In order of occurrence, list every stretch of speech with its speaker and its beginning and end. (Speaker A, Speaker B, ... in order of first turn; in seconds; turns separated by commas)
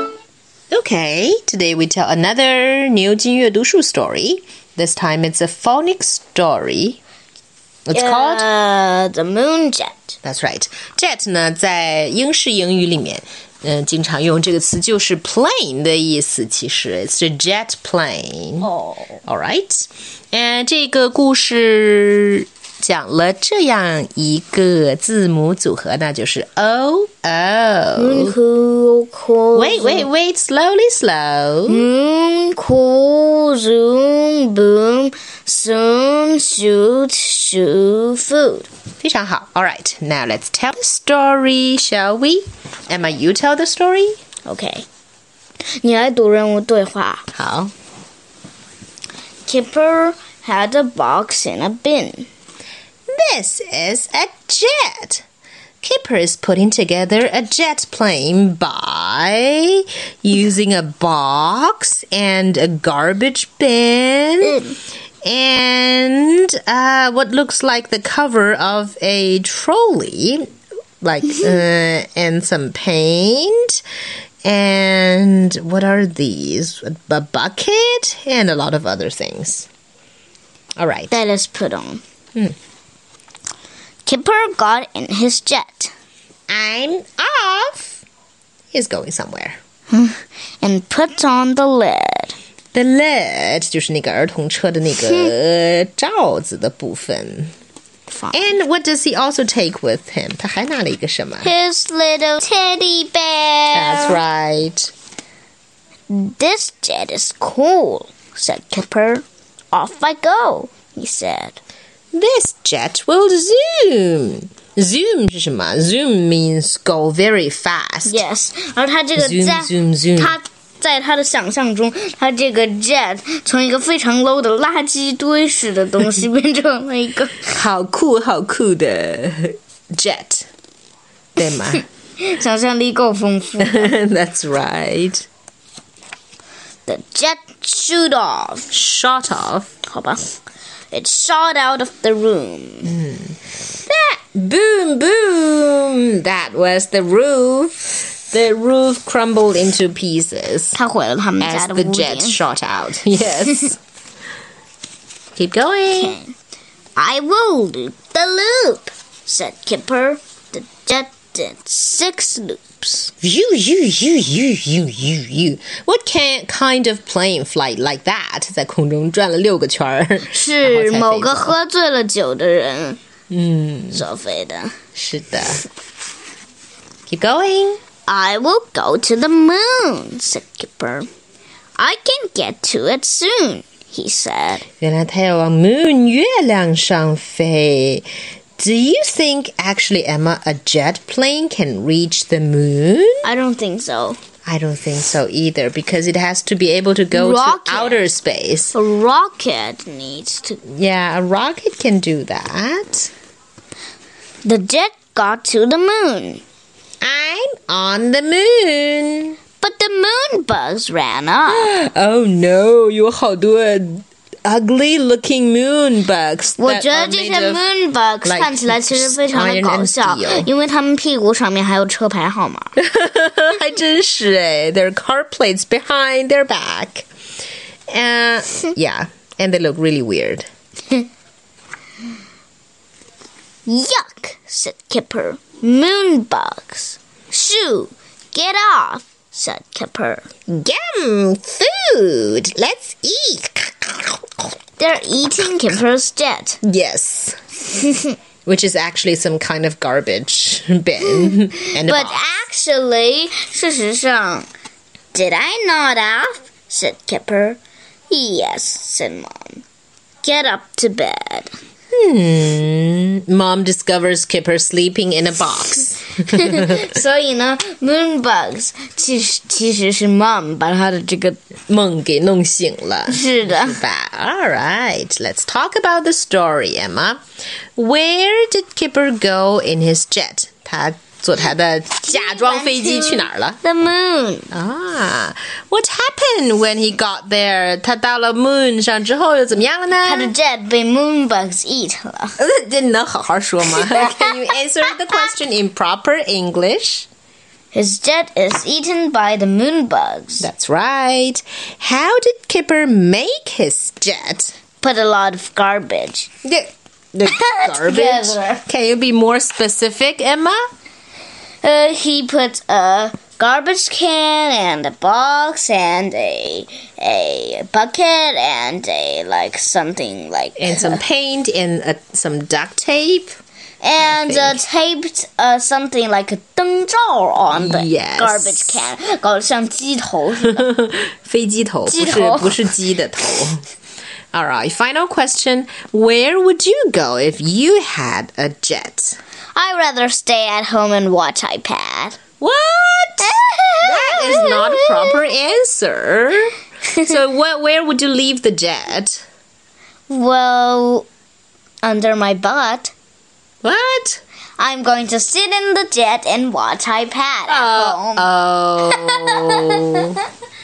Speaker A: 0.7-7.0, Speaker A: 7.9-8.4, Speaker B: 7.9-10.2, Speaker A: 10.2-18.7, Speaker B: 18.6-19.2, Speaker A: 19.2-28.3, Speaker B: 28.0-30.1, Speaker A: 29.5-31.9, Speaker B: 31.7-38.7, Speaker A: 39.0-44.2, Speaker B: 44.5-44.9, Speaker B: 45.8-47.3, Speaker A: 47.3-47.7, Speaker B: 49.5-52.3, Speaker A: 53.1-55.2, Speaker A: 55.8-64.6, Speaker B: 64.4-64.7, Speaker A: 65.2-70.4, Speaker A: 71.0-73.8, Speaker A: 74.4-79.7, Speaker A: 80.8-81.1, Speaker B: 81.1-82.0, Speaker B: 84.0-85.9, Speaker A: 86.5-88.0, Speaker A: 88.7-89.6, Speaker B: 89.9-92.3, Speaker A: 92.7-97.5, Speaker B: 95.0-95.3, Speaker B: 98.1-98.5, Speaker A: 98.3-101.5, Speaker B: 101.4-104.2, Speaker A: 103.7-104.9, Speaker B: 106.1-111.6, Speaker A: 112.1-118.2, Speaker B: 118.0-127.6, Speaker A: 119.2-120.4, Speaker A: 127.5-130.5, Speaker A: 131.4-131.8, Speaker B: 131.7-133.9, Speaker A: 133.6-135.3, Speaker B: 136.9-138.7, Speaker A: 138.7-139.7, Speaker B: 139.8-140.4, Speaker B: 140.9-142.9, Speaker A: 142.8-150.8, Speaker B: 150.7-152.4, Speaker A: 151.4-153.8, Speaker A: 155.3-156.2, Speaker B: 155.9-156.3, Speaker B: 157.0-163.1, Speaker A: 163.2-171.6, Speaker B: 170.3-173.0, Speaker A: 173.3-174.0, Speaker B: 173.9-174.7, Speaker A: 174.9-175.6, Speaker A: 177.1-177.8, Speaker B: 178.1-181.1, Speaker B: 181.8-184.7, Speaker A: 184.8-188.1, Speaker A: 188.6-193.2, Speaker B: 193.2-194.2, Speaker A: 194.4-198.7, Speaker B: 197.1-198.1, Speaker B: 198.7-200.6, Speaker A: 200.7-203.1, Speaker B: 204.4-206.4, Speaker A: 207.0-209.4, Speaker B: 209.6-211.7, Speaker A: 211.4-217.6, Speaker B: 216.6-222.7, Speaker A: 218.2-220.5, Speaker A: 222.8-227.1, Speaker A: 227.9-230.5, Speaker B: 233.7-240.2, Speaker A: 240.5-244.4, Speaker B: 244.8-246.6, Speaker A: 246.6-247.4, Speaker B: 247.7-248.1, Speaker A: 248.4-252.3, Speaker B: 251.1-254.5, Speaker B: 255.1-257.6, Speaker B: 258.1-259.6, Speaker B: 260.2-261.5, Speaker A: 261.9-266.9, Speaker B: 266.3-271.4, Speaker A: 271.7-277.2, Speaker B: 273.1-273.8, Speaker A: 277.8-283.6, Speaker B: 282.0-284.5, Speaker A: 284.5-290.3, Speaker B: 290.0-292.3, Speaker A: 292.4-297.1, Speaker B: 293.7-294.3, Speaker B: 297.7-300.5, Speaker A: 300.4-304.5, Speaker B: 304.8-306.3, Speaker A: 306.4-310.6, Speaker B: 307.2-308.6, Speaker B: 311.6-321.0, Speaker A: 320.6-323.4, Speaker B: 323.8-330.6, Speaker A: 324.0-324.6, Speaker A: 327.5-328.9, Speaker A: 330.5-333.6, Speaker B: 331.9-332.7, Speaker A: 334.3-339.2, Speaker B: 339.5-342.2, Speaker A: 342.4-349.2, Speaker B: 343.2-345.2, Speaker B: 346.9-347.1, Speaker B: 350.1-351.1, Speaker B: 351.8-352.9, Speaker A: 353.6-354.2, Speaker B: 354.6-358.3, Speaker A: 357.5-360.2, Speaker B: 358.9-360.2